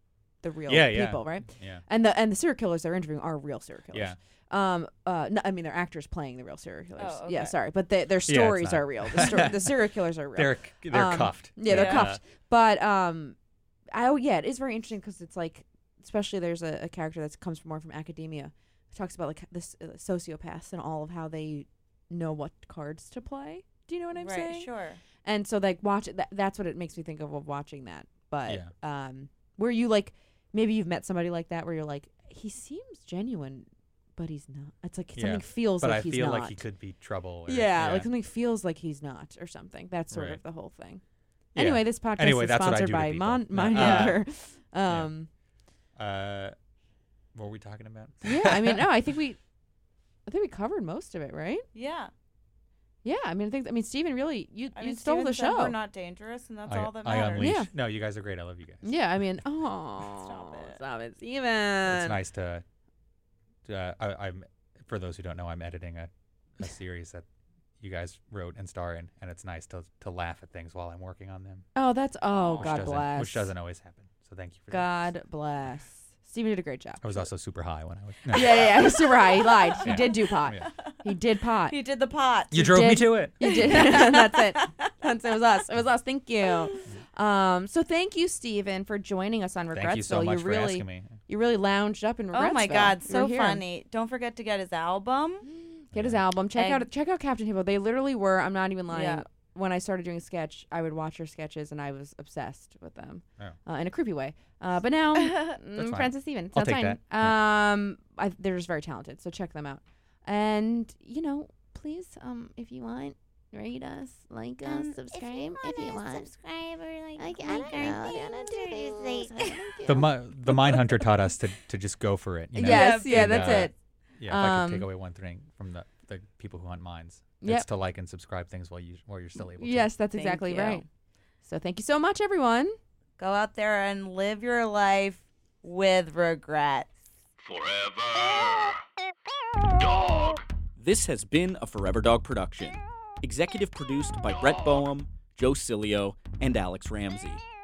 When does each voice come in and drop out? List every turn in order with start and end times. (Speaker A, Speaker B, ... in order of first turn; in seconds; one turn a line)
Speaker A: 0.4-13.3
Speaker B: 0.7-1.8
Speaker C: 7.0-7.5
Speaker B: 8.2-12.2
Speaker C: 11.7-12.1
Speaker A: 13.9-24.7
Speaker C: 24.1-25.0
Speaker A: 25.2-36.6
Speaker B: 28.5-28.7
Speaker B: 35.1-38.1
Speaker A: 37.5-41.0
Speaker B: 40.1-40.4
Speaker B: 41.5-44.2
Speaker A: 41.5-45.3
Speaker C: 43.7-44.2
Speaker B: 46.0-46.5
Speaker B: 47.3-48.9
Speaker A: 48.2-49.4
Speaker A: 50.2-51.6
Speaker C: 51.7-52.1
Speaker A: 53.0-55.8
Speaker C: 54.7-57.5
Speaker B: 56.7-59.0
Speaker A: 57.4-57.7
Speaker A: 58.8-62.2
Speaker C: 60.1-60.8
Speaker B: 61.9-62.6
Speaker B: 63.6-67.2
Speaker B: 67.8-71.7
Speaker A: 71.7-73.5
Speaker C: 72.3-72.8
Speaker B: 72.6-75.0
Speaker A: 74.7-77.2
Speaker B: 77.0-78.9
Speaker A: 78.3-81.8
Speaker C: 79.7-81.0
Speaker B: 79.8-80.7
Speaker C: 81.7-82.6
Speaker B: 82.5-83.7
Speaker A: 82.5-93.6
Speaker C: 83.4-84.7
Speaker B: 89.7-91.2
Speaker C: 92.3-95.5
Speaker A: 95.5-116.3
Speaker B: 95.9-96.2
Speaker C: 96.5-96.8
Speaker C: 98.9-99.2
Speaker B: 105.8-107.4
Speaker D: 114.7-119.8
Speaker A: 117.2-120.1
Speaker B: 119.8-129.9
Speaker A: 122.5-123.7
Speaker C: 122.6-123.7
Speaker A: 124.3-124.9
Speaker A: 127.4-127.7
Speaker A: 129.6-130.8
Speaker C: 130.1-130.9
Speaker A: 131.4-132.8
Speaker C: 133.2-136.9
Speaker E: 140.8-147.4